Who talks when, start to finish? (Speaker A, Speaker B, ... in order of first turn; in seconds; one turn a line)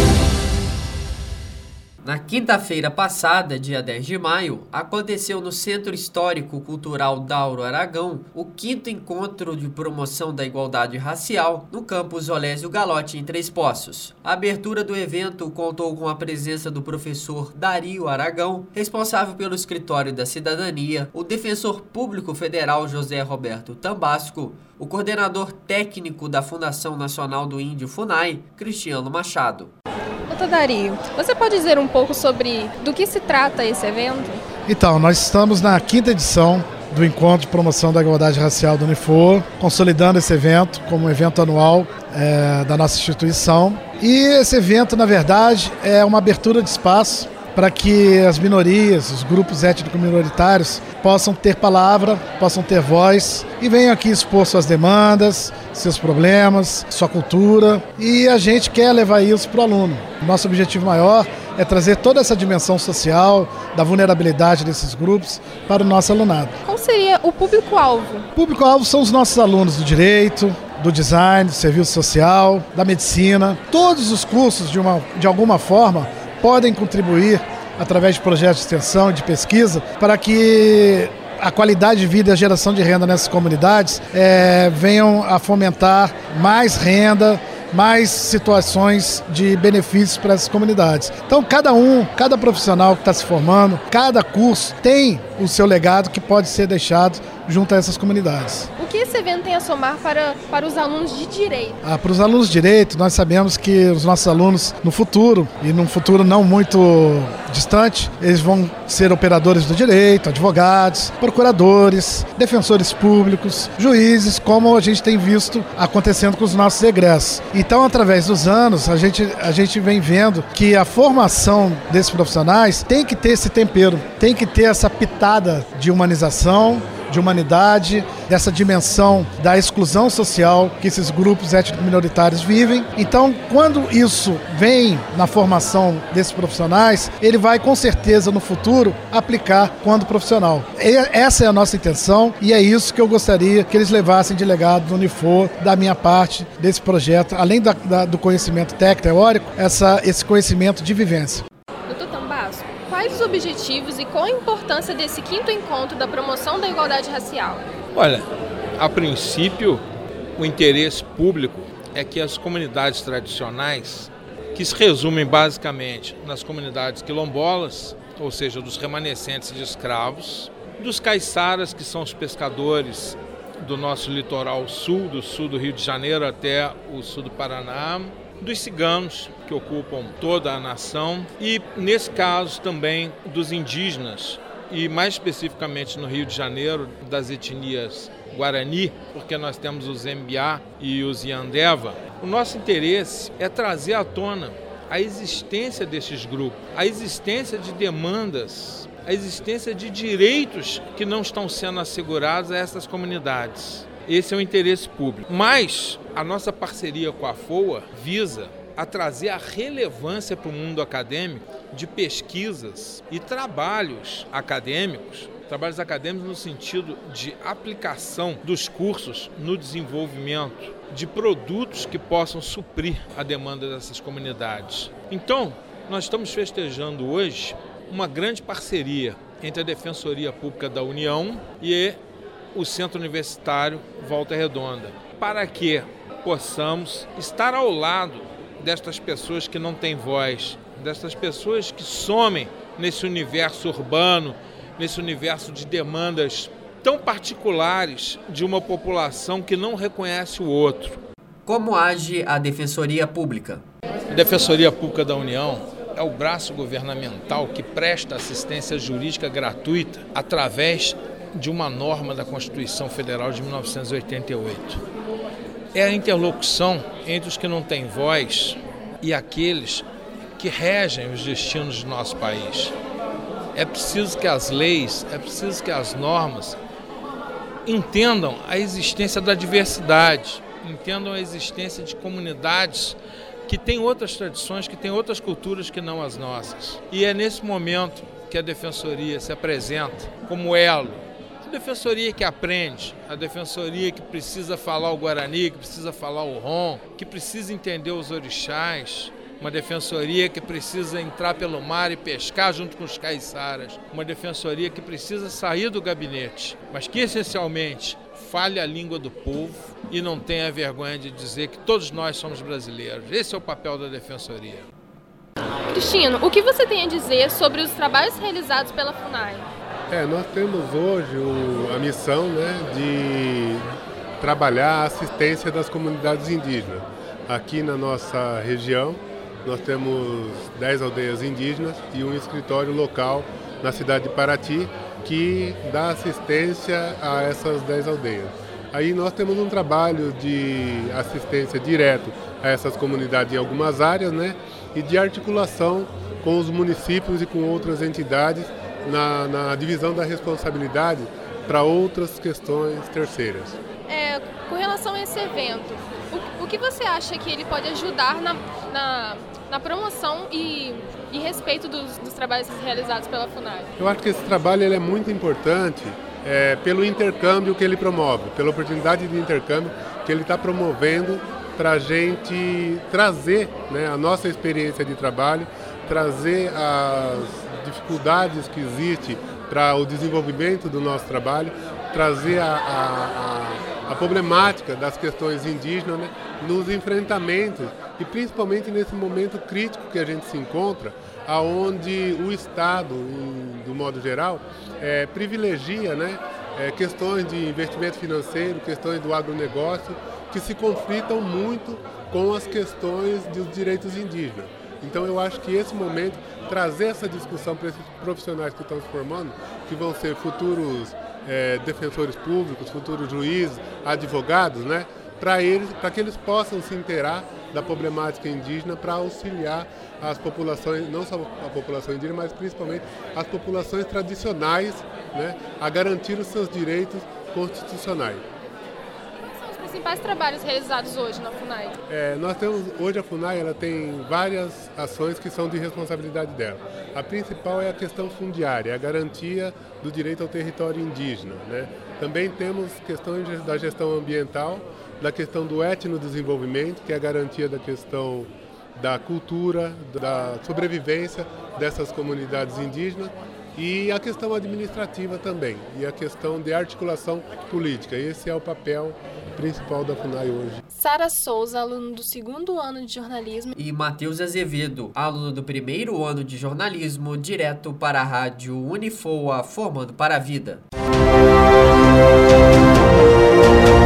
Speaker A: 2.0-29.7
Speaker B: 30.3-34.4
Speaker C: 34.7-66.5
Speaker B: 66.7-68.3
Speaker C: 68.3-98.7
Speaker B: 98.8-101.8
Speaker C: 101.8-151.4
Speaker B: 151.9-157.7
Speaker D: 157.9-159.8
Speaker D: 160.4-232.0
Speaker D: 232.5-251.0
Speaker A: 251.5-253.7
Speaker D: 254.1-264.8
Speaker D: 265.7-269.9
Speaker D: 270.4-272.7
Speaker D: 273.6-276.6
Speaker D: 277.6-314.7
Speaker B: 315.7-319.5
Speaker E: 319.9-323.7
Speaker E: 324.2-353.6
Speaker B: 353.9-363.7
Speaker E: 363.8-428.2
Speaker B: 429.2-431.8
Speaker E: 431.9-460.6
Speaker B: 460.7-463.6
Speaker A: 463.6-470.6